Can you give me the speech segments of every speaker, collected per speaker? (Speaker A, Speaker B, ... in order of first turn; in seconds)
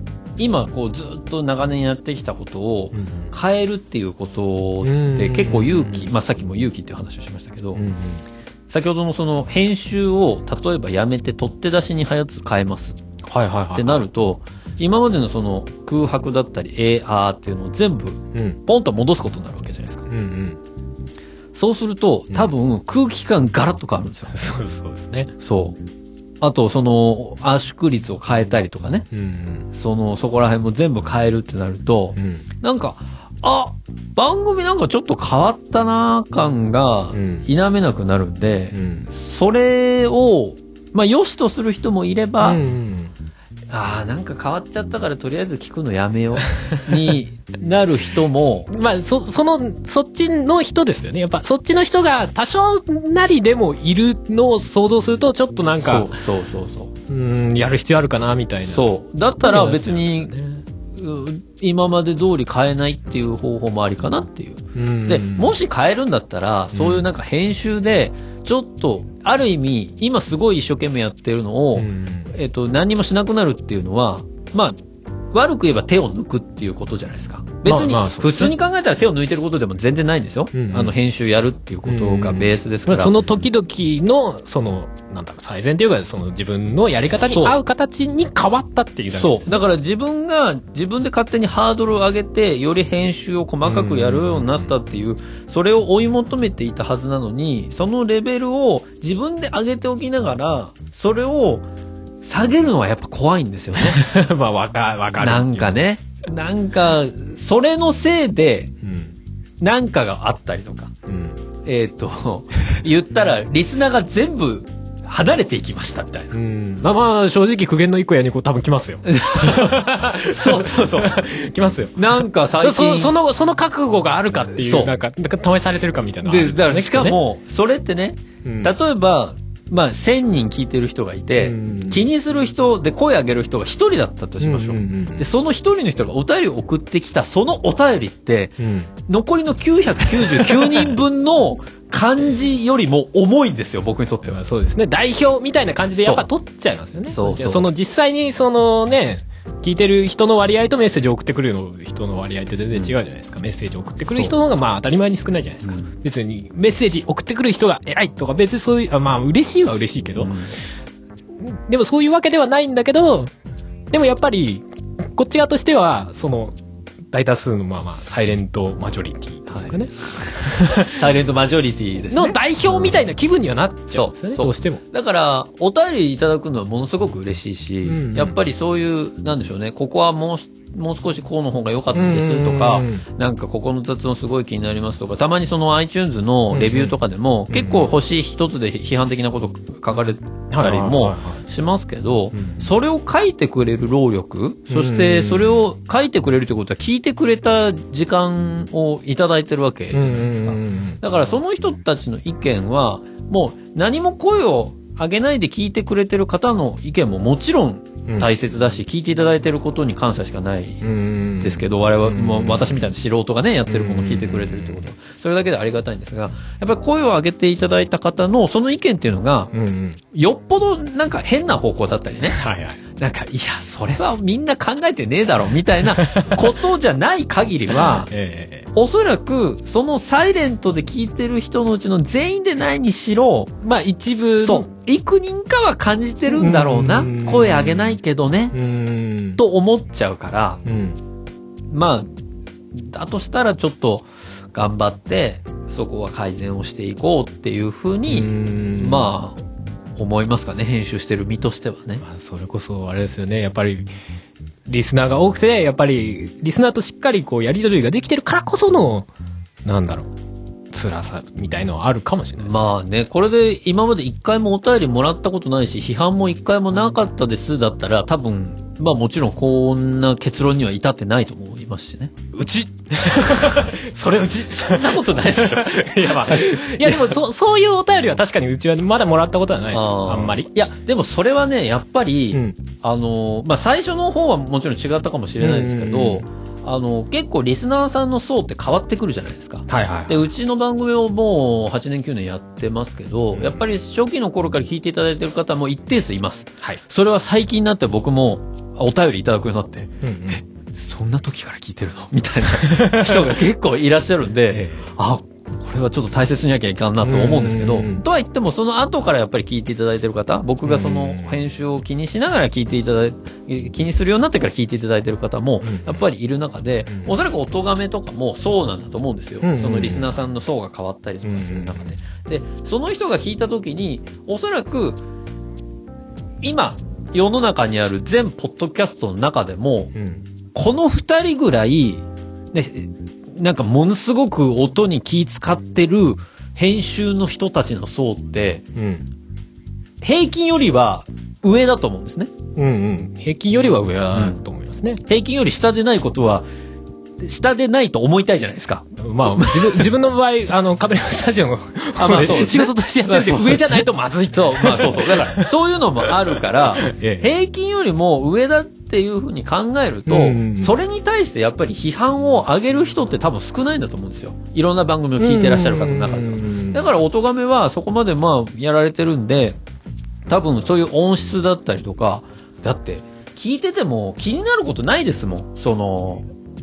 Speaker A: 0.4-7.8, 8.7-13.0, 13.7-20.1, 21.5-24.4, 25.4-25.8, 26.4-29.1, 29.7-42.6, 43.7-48.7, 55.8-56.9, 58.7-60.3, 61.0-74.8, 75.3-83.1, 87.3-87.5, 89.1-101.7, 102.2-104.0, 105.2-108.7, 109.6-110.9, 111.6-116.3, 119.0-121.2, 122.0-123.1, 124.6-124.9, 126.2-144.4, 146.0-146.3, 147.1-147.7, 155.6-155.9, 160.2-160.6, 169.5-173.0, 173.9-210.9, 211.4-219.5, 220.1-222.4, 222.9-228.1, 228.7-233.5, 234.4-238.5, 239.4-240.6, 241.7-242.1, 242.7-249.4, 250.0-252.0, 262.4-272.1, 273.5-277.2, 279.7-325.0, 326.4-329.9, 330.5-338.6, 340.0-342.3, 344.1-344.4, 345.1-346.4, 347.2-349.9, 351.9-369.6, 370.3-376.3
Speaker B: 2.9-3.2, 4.8-6.1, 7.7-8.2, 13.2-14.1, 18.3-18.6, 20.1-20.6, 24.3-25.3, 29.1-29.7, 32.1-32.4, 37.1-37.5, 38.7-39.1, 42.4-43.1, 48.7-56.2, 57.1-60.6, 64.7-65.5, 66.7-67.0, 71.8-72.3, 77.7-78.5, 80.5-81.0, 81.8-89.6, 93.6-94.7, 103.7-105.8, 108.8-109.1, 111.1-111.4, 116.3-127.2, 128.4-128.7, 131.4-132.0, 134.4-135.2, 138.6-138.9, 140.2-140.9, 144.2-160.3, 161.4-163.3, 163.9-166.5, 167.1-171.1, 172.1-174.8, 177.8-178.4, 181.9-183.0, 186.5-186.9, 187.5-187.9, 190.5-191.4, 192.3-192.6, 194.7-195.6, 199.9-201.0, 210.8-212.9, 213.7-214.9, 219.5-220.0, 222.2-222.8, 225.9-226.5, 227.7-228.7, 233.6-234.7, 236.3-238.0, 238.5-239.4, 240.6-241.0, 248.1-249.1, 252.0-253.9, 254.7-259.1, 259.6-260.1, 260.7-262.6, 272.3-280.5, 282.3-282.6, 285.4-286.2, 289.7-290.2, 293.3-293.6, 300.0-300.4, 302.5-303.4, 304.5-304.9, 307.0-308.0, 310.6-311.4, 315.6-316.0, 319.4-320.1, 321.2-321.9, 329.9-330.2, 338.7-339.1, 342.6-345.0, 349.0-355.5, 356.1-357.3, 360.1-360.8, 365.2-366.8